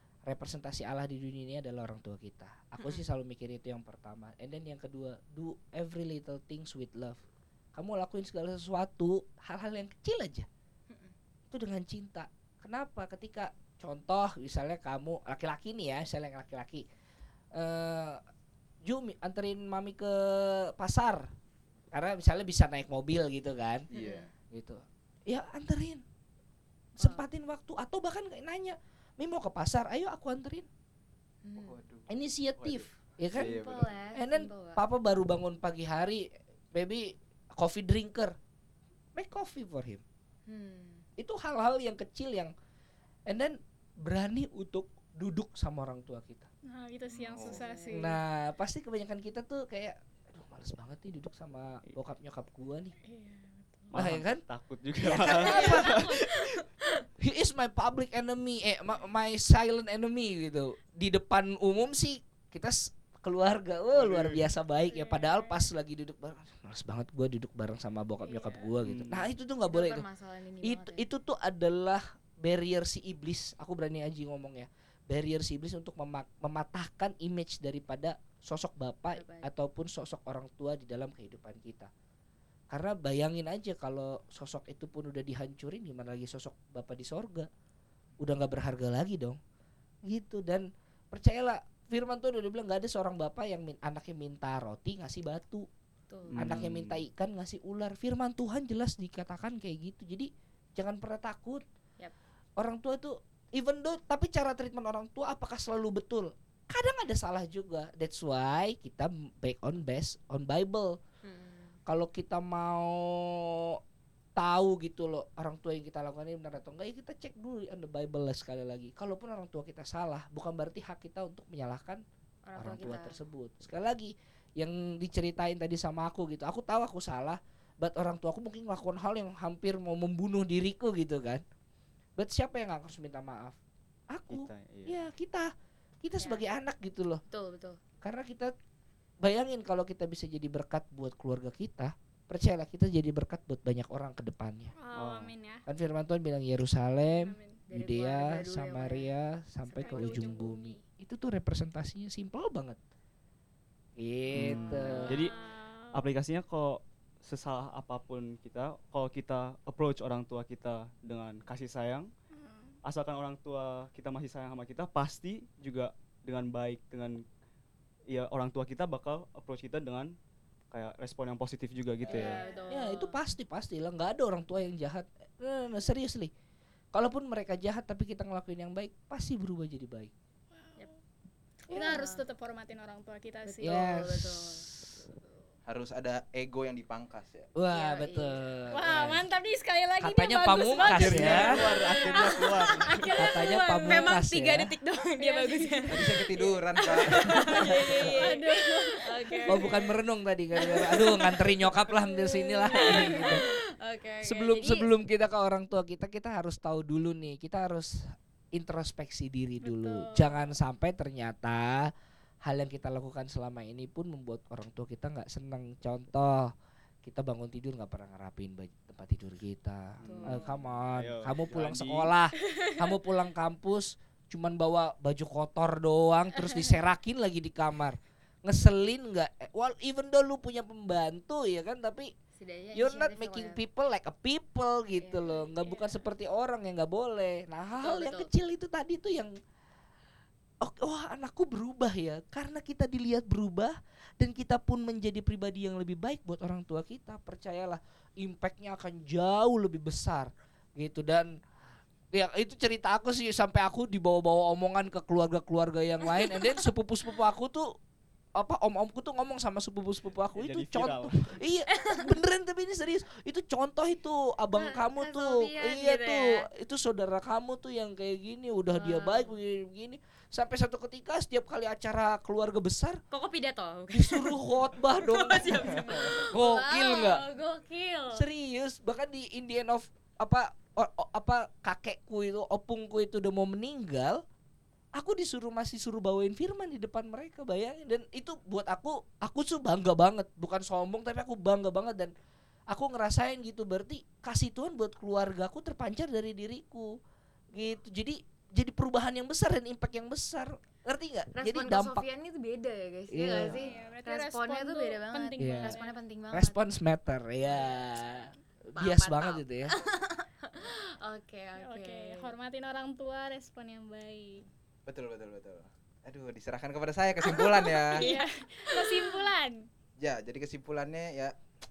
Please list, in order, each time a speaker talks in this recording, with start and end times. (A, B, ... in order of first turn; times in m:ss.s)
0:00.2-0:07.2 A
0:07.7-0:10.5 A
0:10.9-0:11.1 B
0:11.5-0:16.8 A
0:17.5-0:18.2 A
0:18.8-0:21.3 A
0:21.9-0:23.8 A
0:23.9-0:24.2 C
0:23.9-0:24.3 B
0:24.5-0:26.0 A
0:27.0-0:30.7 A
0:27.0-0:27.2 B
0:31.4-0:31.8 B
0:31.5-0:34.0 C
0:32.1-0:33.6 A
0:33.3-0:34.8 B
0:34.1-0:38.4 A
0:39.2-0:40.0 A
0:40.5-0:41.0 B
0:41.2-0:42.5 A
0:43.3-0:46.5 A
0:46.7-0:48.2 D
0:47.2-0:48.1 B
0:47.2-0:47.6 C
0:47.9-0:52.9 A
0:53.0-0:53.9 D
0:53.9-0:56.4 E
0:54.0-0:54.4 A
0:55.0-0:55.9 A
0:55.3-0:57.0 B
0:55.4-0:56.0 D
0:57.2-1:10.0 A
1:03.9-1:04.5 E
1:04.9-1:05.6 D
1:08.2-1:08.7 D
1:08.8-1:09.3 E
1:09.6-1:11.0 B
1:10.6-1:21.9 A
1:19.1-1:19.5 B
1:22.7-1:27.5 A
1:28.2-1:29.4 A
1:30.0-1:35.7 A
1:36.1-1:36.4 B
1:36.3-1:37.0 E
1:36.4-1:41.6 A
1:42.6-1:51.0 A
1:51.2-1:51.8 B
1:51.9-1:53.8 A
1:54.4-2:02.0 A
2:02.4-2:03.2 B
2:02.6-2:11.4 A
2:12.2-2:13.6 A
2:14.1-2:15.5 A
2:14.3-2:15.0 E
2:16.0-2:17.2 A
2:16.2-2:16.4 B
2:17.3-2:17.8 B
2:18.0-2:18.5 A
2:19.2-2:24.7 A
2:24.8-2:25.6 D
2:24.9-2:25.3 E
2:25.7-2:32.8 A
2:27.1-2:27.6 D
2:27.7-2:29.1 B
2:29.6-2:30.7 B
2:29.8-2:30.8 D
2:34.0-2:35.2 A
2:34.3-2:35.3 E
2:34.5-2:36.0 D
2:35.9-2:42.1 E
2:42.4-2:42.8 D
2:42.8-2:47.2 E
2:48.1-2:50.1 E
2:50.7-2:52.4 E
2:52.1-2:53.2 B
2:52.1-2:52.9 D
2:52.2-2:56.3 A
2:56.9-3:00.1 A
3:00.6-3:00.9 D
3:01.7-3:02.2 B
3:01.7-3:04.0 D
3:03.4-3:04.7 B
3:03.6-3:04.8 A
3:05.7-3:07.5 C
3:07.5-3:09.3 A
3:07.7-3:08.4 B
3:08.7-3:14.1 D
3:10.0-3:11.5 A
3:10.8-3:12.0 C
3:10.8-3:13.2 E
3:12.0-3:19.9 B
3:13.2-3:14.7 A
3:15.2-3:16.2 D
3:15.9-3:17.2 C
3:17.4-3:19.9 D
3:17.6-3:18.2 A
3:19.5-3:23.4 A
3:20.6-3:21.6 B
3:20.7-3:21.1 D
3:22.1-3:23.4 D
3:22.6-3:24.9 B
3:24.2-3:31.9 A
3:29.6-3:30.5 D
3:32.4-3:36.5 A
3:37.0-3:52.1 A
3:40.0-3:42.1 E
3:40.0-3:40.6 B
3:42.4-3:42.9 D
3:52.4-3:53.6 B
3:52.7-3:59.3 A
3:54.9-3:55.9 B
3:57.8-3:58.3 B
4:00.6-4:11.3 A
4:12.1-4:17.7 A
4:16.1-4:16.6 B
4:18.4-4:33.0 A
4:20.4-4:21.4 E
4:21.7-4:22.1 B
4:24.5-4:26.5 B
4:28.7-4:29.3 B
4:33.1-4:38.2 B
4:33.9-4:37.2 A
4:38.1-4:44.2 A
4:45.0-4:52.1 A
4:52.7-4:57.0 A
4:57.5-5:02.0 A
5:01.3-5:06.6 B
5:03.1-5:03.7 A
5:03.4-5:06.0 D
5:05.4-5:05.8 A
5:06.3-5:09.7 A
5:07.5-5:08.1 B
5:08.8-5:12.3 B
5:11.6-5:14.4 D
5:14.8-5:18.1 C
5:17.2-5:19.3 B
5:17.9-5:19.7 D
5:20.0-5:21.4 C